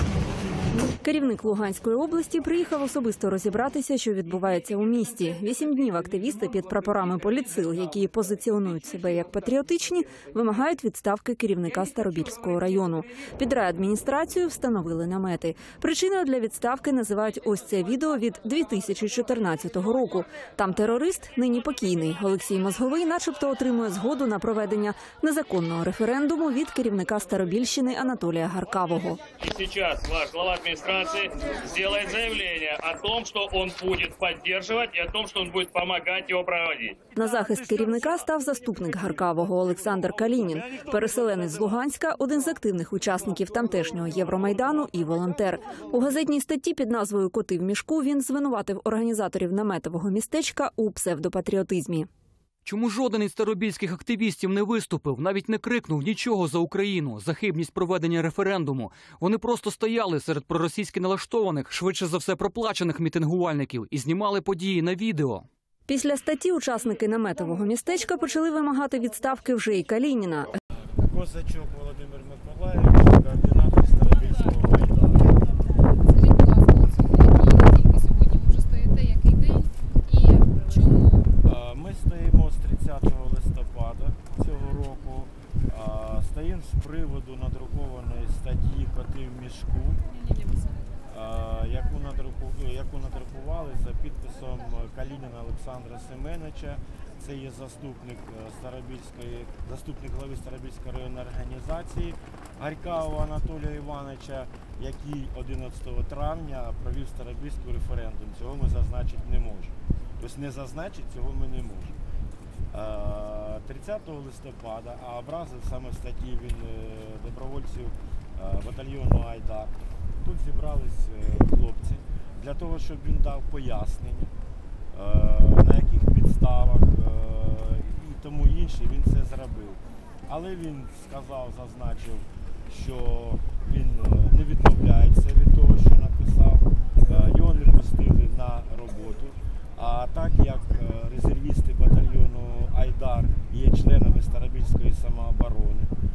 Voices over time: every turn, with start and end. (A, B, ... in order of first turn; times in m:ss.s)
0:00.9-0:29.2 A
0:29.3-0:37.1 B
0:37.1-0:52.1 A
0:40.5-0:41.6 C
0:52.6-1:05.4 D
1:05.9-1:10.5 A
1:11.0-1:15.3 C
1:16.0-1:21.3 E
1:21.4-1:30.0 C
1:30.1-1:30.9 E
1:31.1-1:52.0 C
1:52.7-2:04.3 C
2:04.9-2:25.9 C